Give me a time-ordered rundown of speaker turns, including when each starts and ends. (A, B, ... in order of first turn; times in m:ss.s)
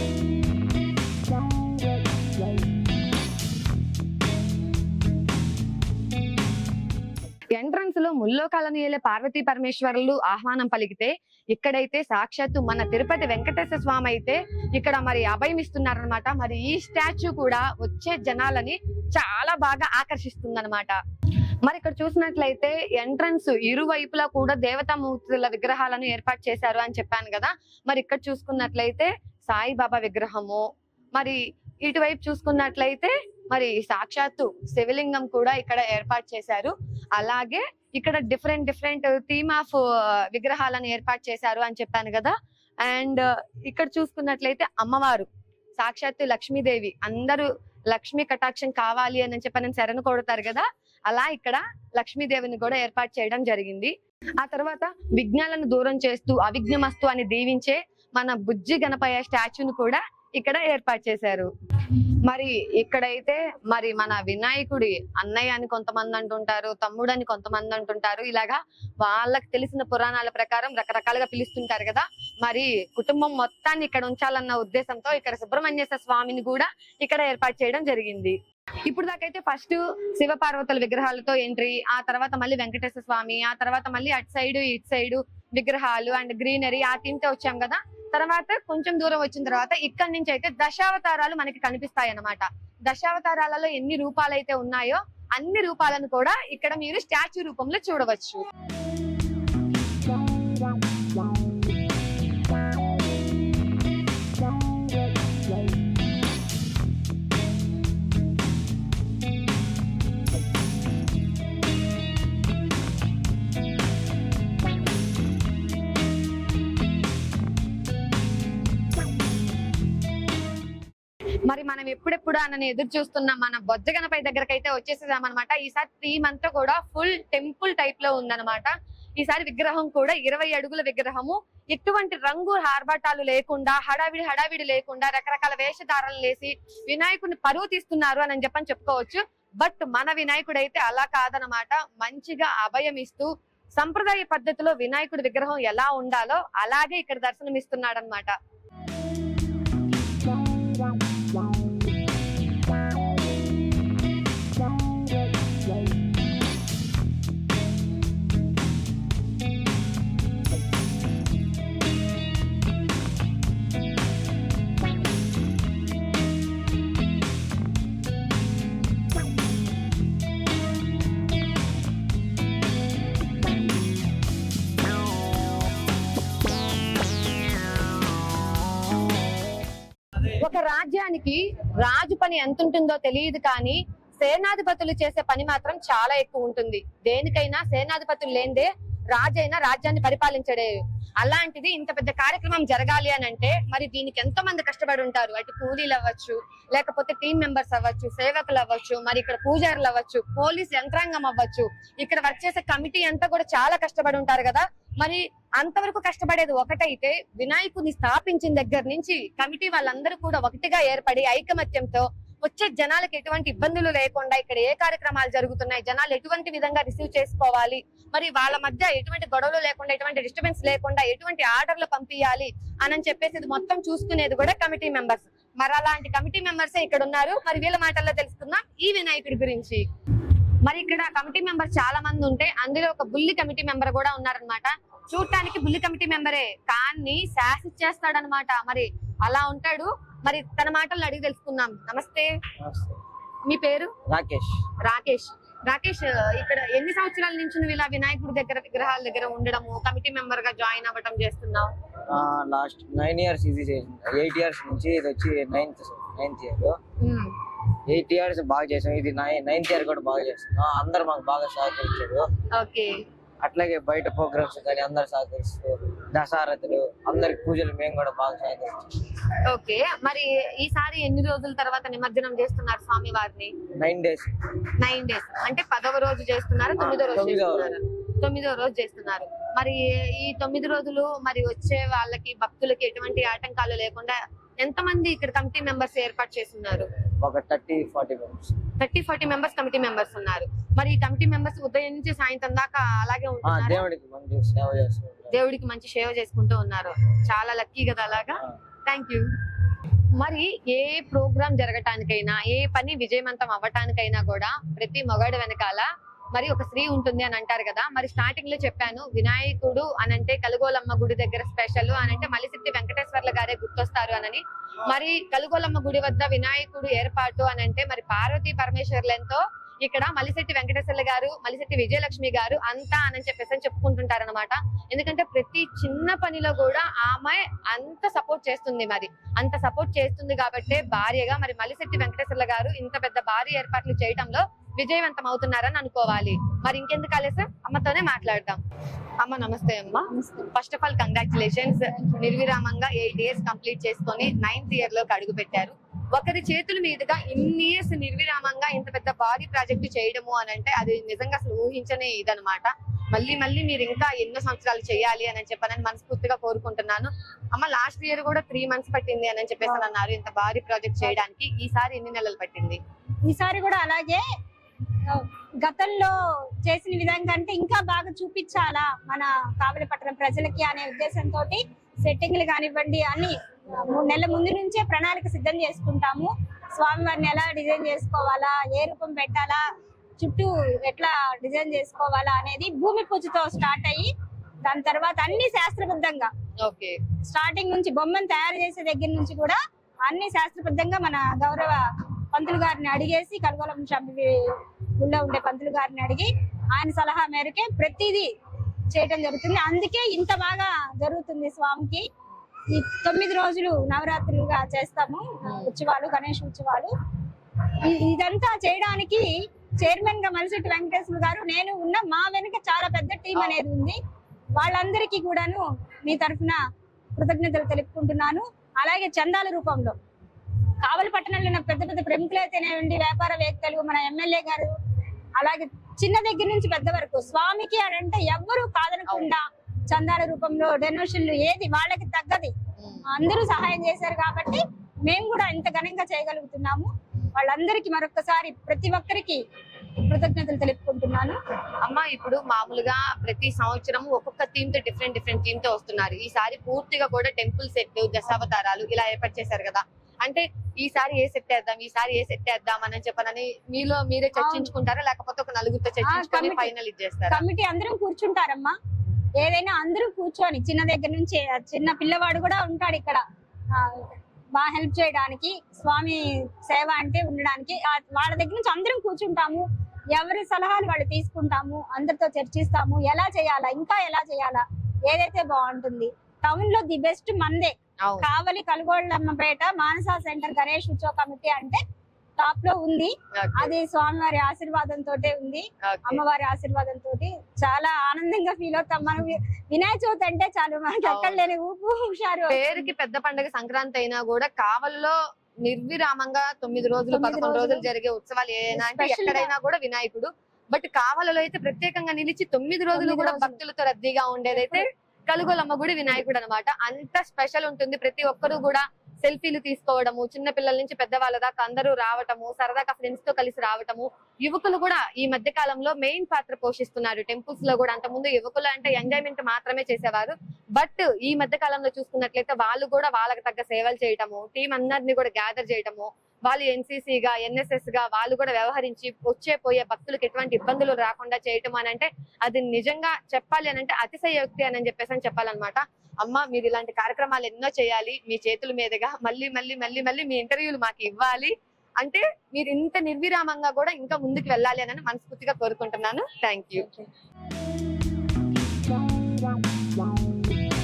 0:07.5-0:21.0 A
0:21.6-1:01.5 A
1:02.3-1:38.4 A
2:01.5-2:28.3 A
3:00.3-3:49.8 A
3:50.6-4:02.3 A
4:02.6-4:02.9 B
4:03.5-4:03.9 A
4:04.1-4:04.6 B
4:04.8-4:11.7 A
4:12.1-4:16.8 B
4:17.0-4:17.3 A
4:17.9-4:22.3 B
4:22.5-4:23.0 A
4:23.4-4:28.9 B
4:29.5-4:33.5 A
4:33.8-4:34.3 B
4:34.8-4:46.9 A
4:36.8-4:37.7 B
4:47.2-4:48.5 B
4:48.8-4:53.8 A
4:53.4-4:55.3 B
4:55.3-4:59.3 A
5:00.2-5:38.6 A
5:39.2-6:02.8 A
5:40.1-5:40.4 C
6:03.2-6:04.2 C
6:05.0-6:19.6 C
6:20.2-6:24.1 C
6:24.6-6:26.3 C
6:26.6-6:27.0 A
6:27.2-6:38.3 C
6:38.9-6:42.1 C
6:42.7-6:46.9 C
6:47.8-6:49.3 C
6:49.8-6:54.0 C
6:53.4-6:53.6 A
6:54.5-6:56.6 C
6:57.1-7:00.0 C
7:00.8-7:04.7 C
7:05.4-7:12.5 C
7:12.8-7:13.1 A
7:13.1-7:19.4 C
7:20.0-7:21.4 C
7:21.8-7:37.4 A
7:34.4-7:34.7 C
7:36.0-7:36.7 C
7:37.3-7:38.8 C
7:39.4-8:01.8 C
7:58.0-7:58.3 A
8:02.4-8:12.8 C
8:03.4-8:03.7 A
8:05.8-8:06.2 A
8:11.0-8:11.4 A
8:12.5-9:07.0 A
8:17.1-8:17.8 C
8:18.7-8:19.5 C
8:23.0-8:23.6 C
8:24.6-8:24.8 C